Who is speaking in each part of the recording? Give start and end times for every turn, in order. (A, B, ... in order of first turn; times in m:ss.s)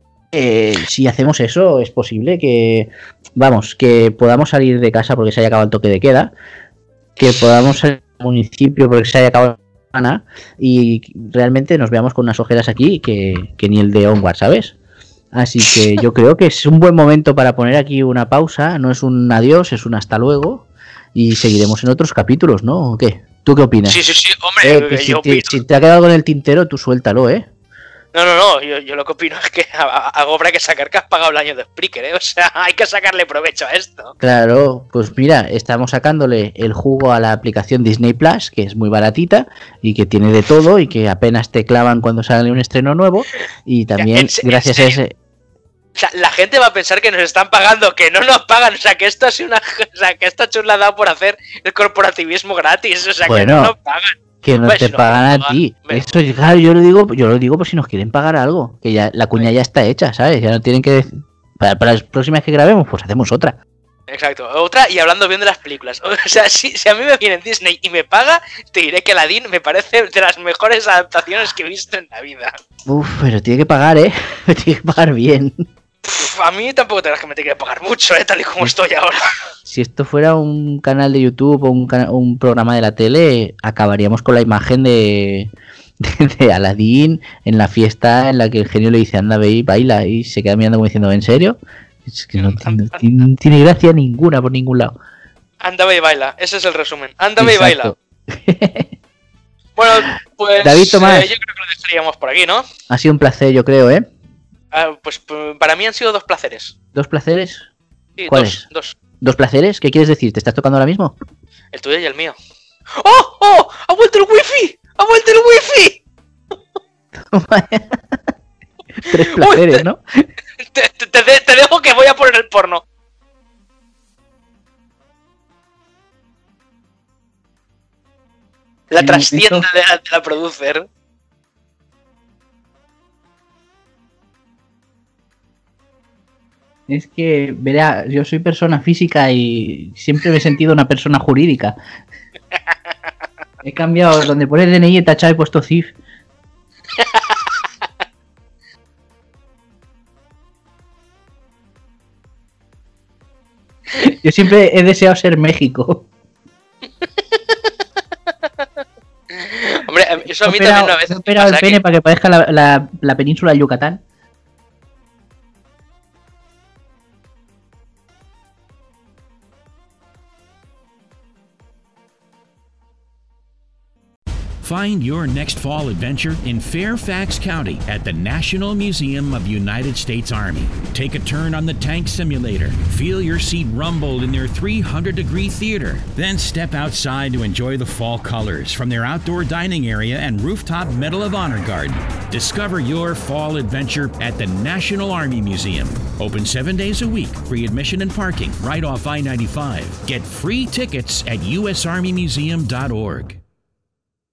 0:00.3-0:06.3 A
0:07.2-0:14.7 A
0:15.3-0:24.0 A
0:23.8-0:25.6 B
0:24.6-0:27.4 A
0:28.1-0:34.1 B
0:34.2-0:45.1 A
0:44.0-0:45.0 B
0:46.0-0:56.2 B
0:53.2-0:53.7 A
0:54.4-1:03.6 A
1:04.1-1:12.6 B
1:12.9-1:15.6 A
1:16.0-1:19.4 B
1:19.6-1:35.0 A
1:32.4-1:33.0 B
1:35.6-1:37.9 B
1:37.4-1:38.9 A
1:39.8-1:42.6 B
1:40.6-1:41.3 A
1:42.9-1:44.1 A
1:44.7-1:46.7 B
1:46.9-1:47.7 A
1:48.2-1:48.9 B
1:48.3-1:48.6 A
1:49.2-1:51.1 A
1:51.7-1:52.3 B
1:53.0-1:56.0 B
1:57.1-1:58.0 A
1:59.0-2:00.2 A
1:59.1-1:59.9 B
2:00.6-2:02.8 B
2:08.9-2:10.8 B
2:09.0-2:09.7 A
2:16.9-2:21.8 A
2:23.6-2:25.9 A
2:27.0-2:27.4 B
2:34.0-2:36.0 A
2:38.6-2:41.8 B
2:40.4-2:44.0 A
2:54.6-3:23.4 C